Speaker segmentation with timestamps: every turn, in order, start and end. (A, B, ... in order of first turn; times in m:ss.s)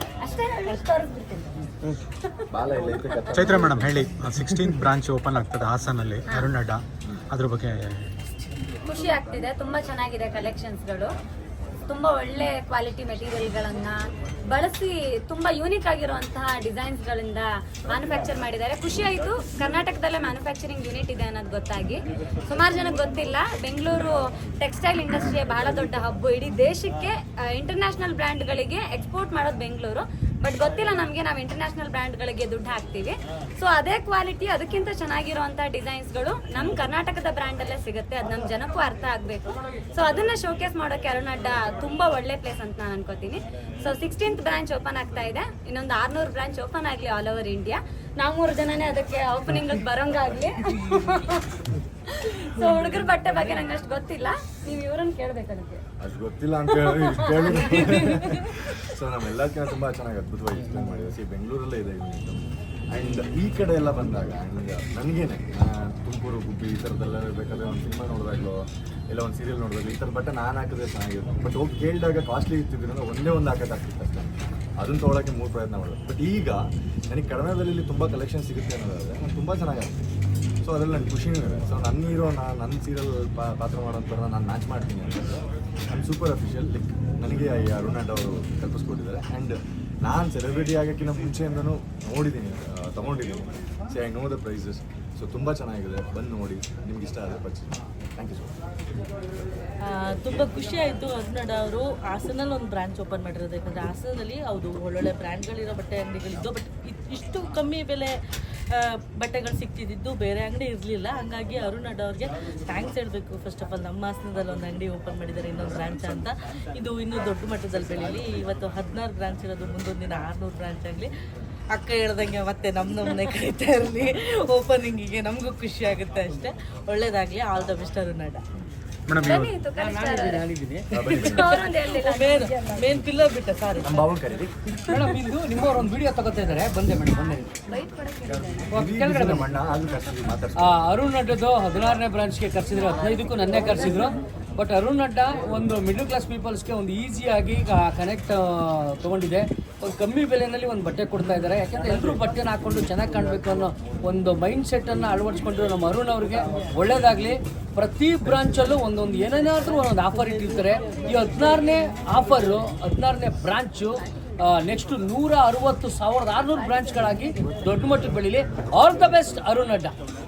0:00.2-0:01.6 A
0:02.5-0:03.9 B
0:02.9-0:03.3 A
0:03.3-0:08.2 C
0:08.8-0:11.1 A
0:11.9-0:14.0 A
0:14.5-0:55.8 A
0:52.6-0:53.6 D
0:56.0-1:20.1 B
0:56.8-0:58.3 A
0:57.9-0:58.4 D
1:20.6-1:38.6 B
1:39.9-1:48.2 D
1:48.7-2:01.1 D
2:01.7-2:08.4 D
2:09.1-2:09.5 C
2:09.2-2:10.4 A
2:09.8-2:11.1 E
2:10.9-2:11.6 B
2:11.1-2:14.2 D
2:11.2-2:12.5 A
2:13.8-2:14.6 B
2:14.8-2:15.1 D
2:14.9-2:17.4 E
2:17.1-2:18.7 A
2:18.7-2:19.5 E
2:18.7-2:20.8 B
2:20.6-2:49.9 E
2:22.7-2:24.2 A
2:40.2-2:41.4 D
2:46.6-2:47.5 A